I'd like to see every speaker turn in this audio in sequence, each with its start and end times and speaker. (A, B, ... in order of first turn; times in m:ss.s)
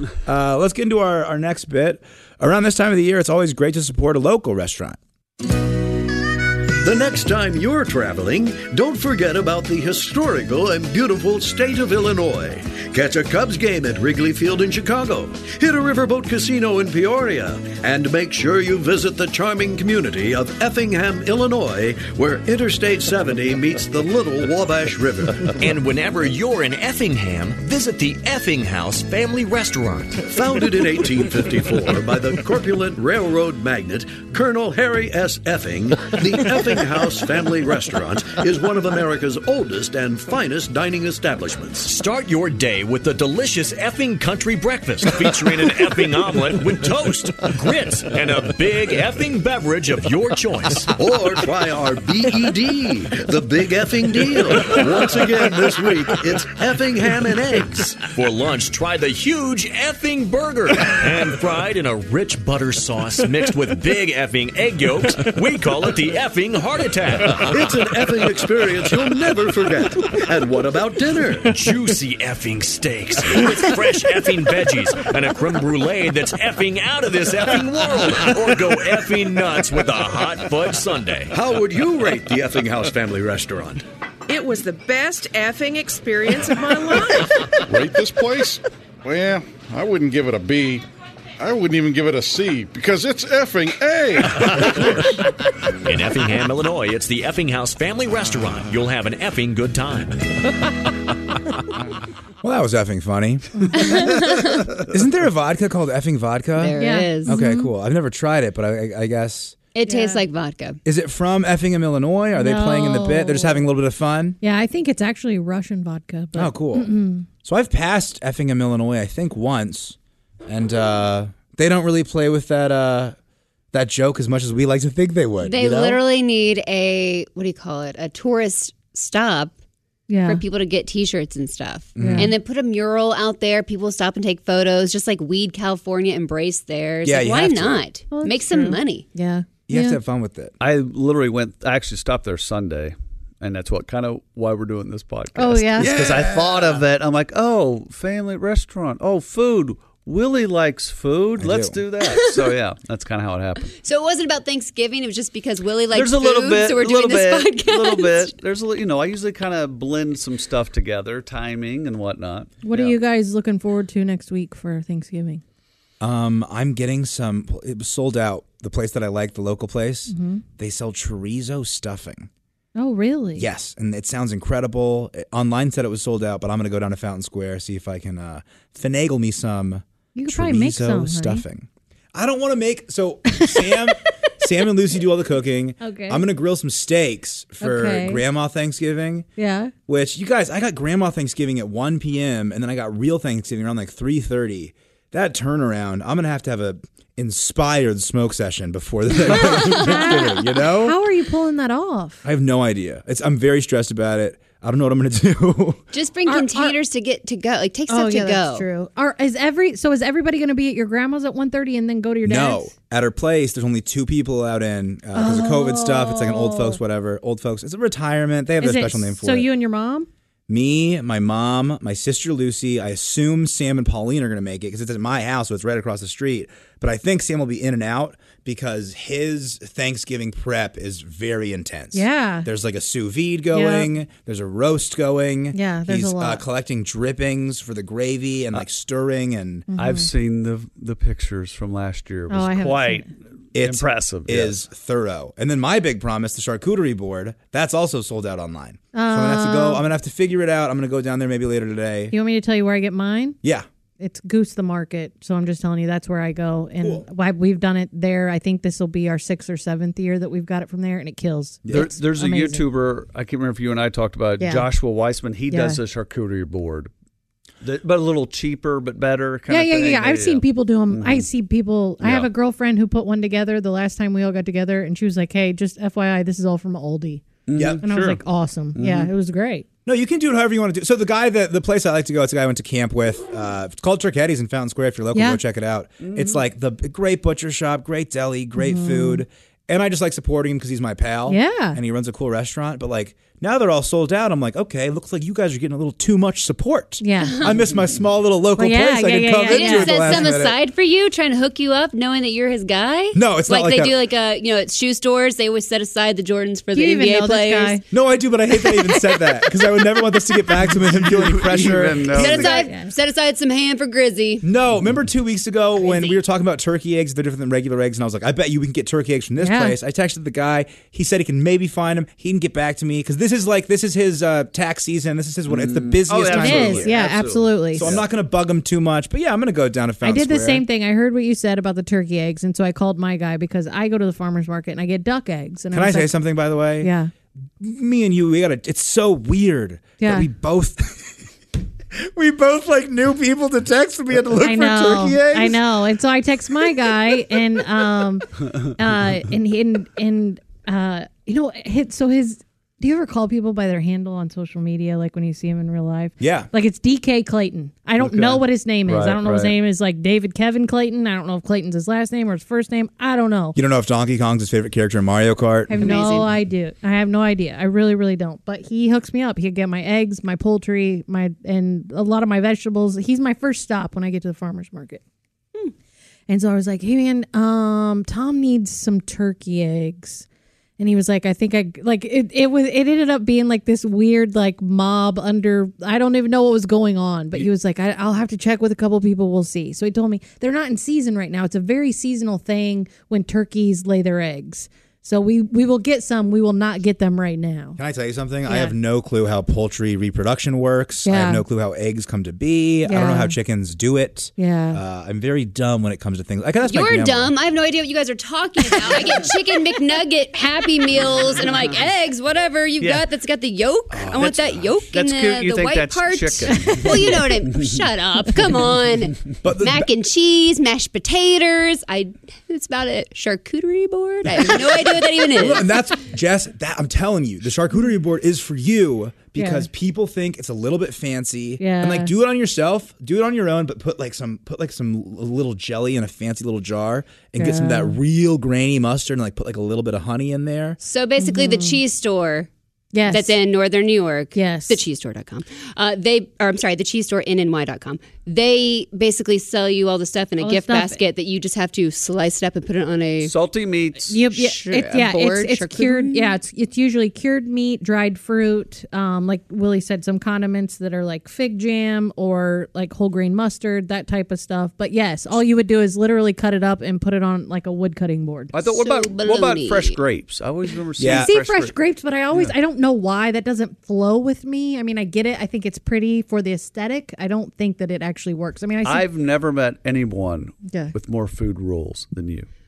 0:00.2-0:05.0 A
0:06.8-0:25.5 B
0:25.5-0:30.3 C
0:30.3-0:41.9 B
0:41.8-0:50.9 C
0:51.0-0:58.0 B
0:58.0-1:07.5 C
1:07.5-1:11.5 B
1:11.5-1:21.3 C
1:21.3-1:23.8 B
1:24.3-1:27.3 D
1:27.7-1:30.8 E
1:31.4-1:35.1 E
1:35.8-1:40.3 C
1:42.4-1:44.2 A
1:43.5-1:44.1 F
1:43.8-1:44.7 G
1:44.9-1:49.6 A
1:46.5-1:47.3 G
1:46.8-1:47.7 F
1:49.7-1:50.8 G
1:49.8-1:50.2 F
1:50.8-1:54.4 A
1:52.3-1:53.6 F
1:54.4-1:57.3 F
1:56.3-1:56.9 A
1:57.4-2:03.2 A
2:03.7-2:06.0 A
2:05.4-2:09.5 G
2:10.1-2:10.4 F
2:10.2-2:19.0 G
2:12.0-2:12.3 A
2:12.0-2:12.3 F
2:17.0-2:17.8 A
2:18.1-2:20.0 F
2:19.7-2:20.5 A
2:20.6-2:33.7 H
2:25.4-2:25.9 F
2:25.8-2:26.8 A
2:31.4-2:31.8 A
2:32.1-2:32.4 G
2:33.8-2:38.3 G
2:35.9-2:43.0 H
2:42.6-2:45.4 F
2:46.0-2:52.3 A
2:50.1-2:50.4 F
2:52.8-2:53.5 F
2:53.4-3:09.3 A
3:00.1-3:01.4 F
3:05.8-3:06.2 F
3:07.6-3:08.2 F
3:09.4-3:09.7 F
3:09.9-3:21.0 A
3:19.3-3:22.2 F
3:22.2-3:25.8 A
3:25.9-3:28.6 G
3:26.2-3:26.7 F
3:27.9-3:32.7 F
3:32.2-3:39.5 A
3:35.1-3:36.8 F
3:38.6-3:40.1 F
3:40.5-3:59.7 A
3:51.9-3:52.5 F
3:53.5-3:53.9 F
3:55.5-3:56.4 F
3:59.7-4:00.1 F
3:59.8-4:04.6 H
4:02.3-4:03.1 F
4:03.5-4:12.1 A
4:08.9-4:09.8 F
4:12.1-4:13.4 F
4:14.0-4:22.6 F
4:21.6-4:21.9 A
4:21.7-4:26.9 H
4:24.4-4:24.7 F
4:25.5-4:25.8 F
4:27.6-4:31.2 H
4:29.5-4:37.2 F
4:32.0-4:32.3 H
4:37.5-4:38.2 H
4:37.5-4:37.8 A
4:37.8-4:39.6 F
4:38.7-4:39.1 H
4:39.8-5:00.6 A
4:45.1-4:45.4 F
4:46.0-4:46.4 H
4:48.6-4:49.2 F
4:51.3-4:51.8 F
4:57.0-4:57.4 F
4:57.3-4:57.6 G
4:58.6-5:00.3 F
4:59.5-5:07.8 G
5:03.1-5:04.0 A
5:06.7-5:07.8 F
5:07.9-5:12.5 A
5:10.8-5:12.5 H
5:12.1-5:14.4 G
5:12.3-5:12.9 F
5:14.4-5:26.9 A
5:15.8-5:16.2 G
5:19.4-5:19.8 F
5:25.5-5:28.0 H
5:26.2-5:27.9 F
5:27.7-5:30.6 A
5:30.0-5:36.1 F
5:35.7-5:36.9 A
5:36.8-5:37.1 F
5:37.6-5:41.2 A
5:40.0-5:40.3 F
5:41.9-5:45.6 A
5:44.4-6:03.6 F
5:56.2-5:56.5 A
5:58.0-5:59.6 H
6:03.5-6:06.1 A
6:05.7-6:15.0 F
6:05.8-6:06.3 G
6:16.3-6:20.3 F
6:20.8-6:37.8 F
6:37.8-6:47.3 A
6:38.4-6:38.7 F
6:41.0-6:41.4 F
6:42.8-6:43.3 F
6:44.4-6:44.8 F
6:46.7-7:05.7 G
6:52.8-6:53.0 H
6:53.9-6:54.4 A
6:54.1-6:57.7 H
6:59.4-6:59.9 A
7:05.3-7:20.8 A
7:09.4-7:09.7 F
7:11.6-7:12.1 F
7:17.4-7:18.0 F
7:20.8-7:22.5 G
7:21.2-7:21.8 F
7:22.9-7:23.4 F
7:23.1-7:33.3 G
7:24.3-7:24.8 F
7:30.4-7:31.0 F
7:33.2-7:34.3 H
7:34.1-7:48.5 F
7:34.3-7:36.3 G
7:48.5-7:51.7 H
7:48.6-7:50.0 G
7:51.0-7:51.3 A
7:51.1-7:59.1 F
7:58.8-8:02.5 H
8:00.7-8:00.9 F